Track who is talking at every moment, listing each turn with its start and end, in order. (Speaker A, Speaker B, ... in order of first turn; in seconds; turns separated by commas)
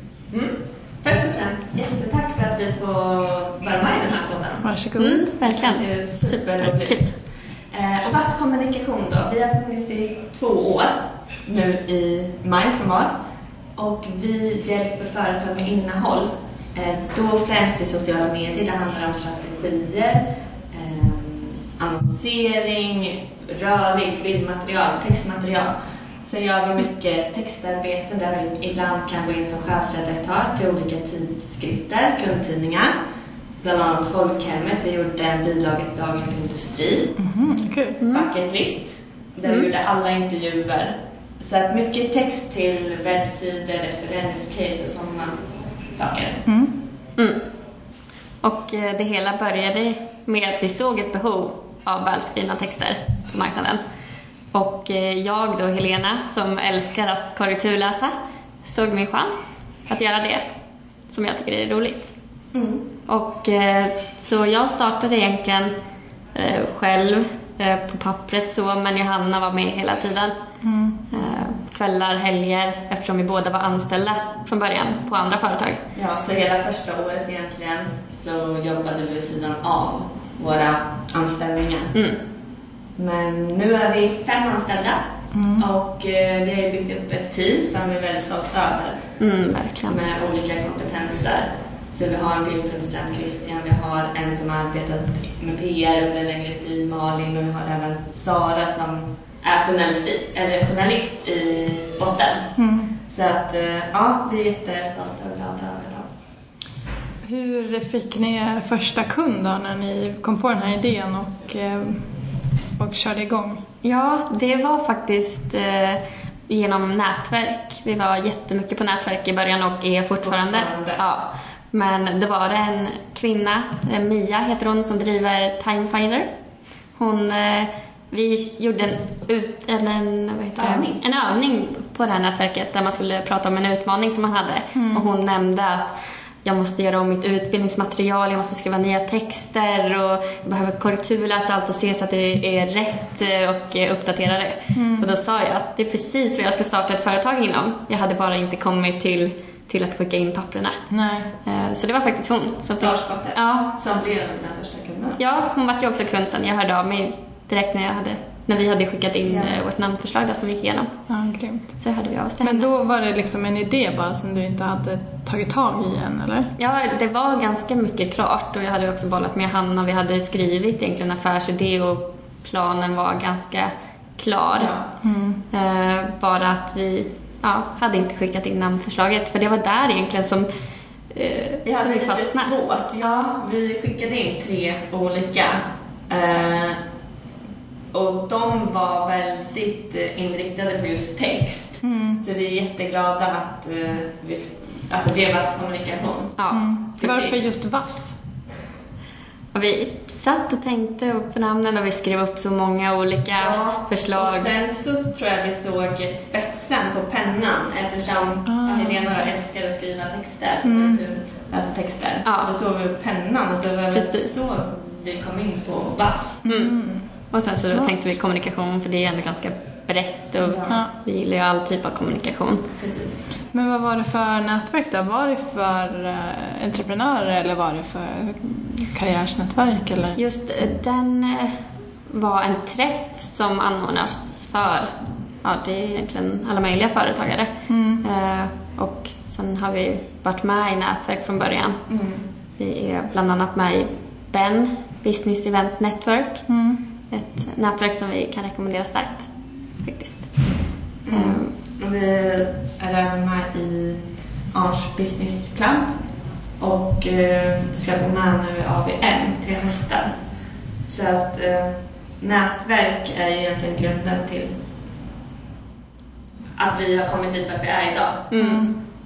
Speaker A: 0.3-4.7, Speaker B: 4.6-5.3, Speaker C: 5.0-7.1, Speaker A: 5.4-7.0, Speaker A: 7.7-13.1, Speaker A: 13.8-32.9, Speaker A: 33.6-37.1, Speaker B: 37.2-38.0, Speaker C: 38.0-38.3, Speaker A: 38.1-46.4, Speaker B: 46.5-46.7, Speaker C: 47.2-47.4, Speaker C: 48.4-53.8, Speaker C: 54.5-58.1, Speaker C: 58.6-60.4, Speaker C: 61.1-62.1, Speaker A: 62.5-62.9, Speaker C: 63.1-65.7, Speaker C: 66.3-70.3, Speaker B: 70.6-71.0, Speaker C: 71.1-75.8, Speaker A: 71.1-71.4, Speaker A: 75.9-81.9, Speaker C: 81.9-82.2, Speaker A: 83.0-85.0, Speaker B: 85.3-85.6, Speaker A: 85.6-89.0, Speaker C: 89.2-90.0, Speaker A: 89.9-102.5, Speaker B: 102.6-102.9, Speaker A: 103.1-106.0, Speaker B: 107.2-112.1, Speaker B: 112.8-113.6, Speaker C: 113.8-126.3, Speaker A: 120.2-121.0, Speaker C: 127.0-150.8, Speaker A: 130.6-131.0, Speaker B: 134.7-135.0, Speaker B: 144.7-145.1, Speaker B: 150.9-151.3, Speaker C: 151.4-153.7, Speaker A: 152.8-155.2, Speaker C: 155.2-160.9, Speaker A: 159.2-159.6, Speaker B: 161.1-161.7, Speaker C: 161.8-162.7, Speaker B: 162.4-166.5, Speaker C: 166.6-174.7, Speaker A: 174.6-174.9, Speaker B: 175.0-175.4, Speaker C: 175.5-180.5, Speaker C: 181.1-183.3, Speaker A: 181.6-186.8, Speaker A: 187.9-196.3, Speaker B: 191.8-192.2, Speaker C: 196.4-196.6, Speaker B: 196.5-198.2, Speaker A: 197.0-197.4, Speaker C: 199.5-204.5, Speaker A: 203.3-216.4, Speaker B: 208.5-209.2, Speaker B: 210.6-211.0, Speaker C: 212.2-212.5, Speaker C: 213.9-214.3, Speaker C: 216.4-216.8, Speaker B: 216.4-217.1, Speaker C: 217.3-222.7, Speaker A: 220.4-220.8, Speaker A: 222.8-223.2, Speaker B: 223.5-230.2, Speaker C: 230.2-231.6, Speaker C: 232.1-237.5, Speaker B: 237.7-238.0, Speaker C: 238.0-241.8, Speaker A: 241.9-242.2, Speaker C: 242.6-246.4, Speaker B: 246.5-246.8, Speaker C: 247.1-249.3, Speaker C: 249.8-250.4, Speaker A: 251.0-255.9, Speaker C: 251.1-251.5, Speaker A: 256.6-260.1, Speaker A: 260.9-264.5, Speaker A: 266.6-268.3, Speaker C: 268.3-268.7, Speaker B: 268.3-268.7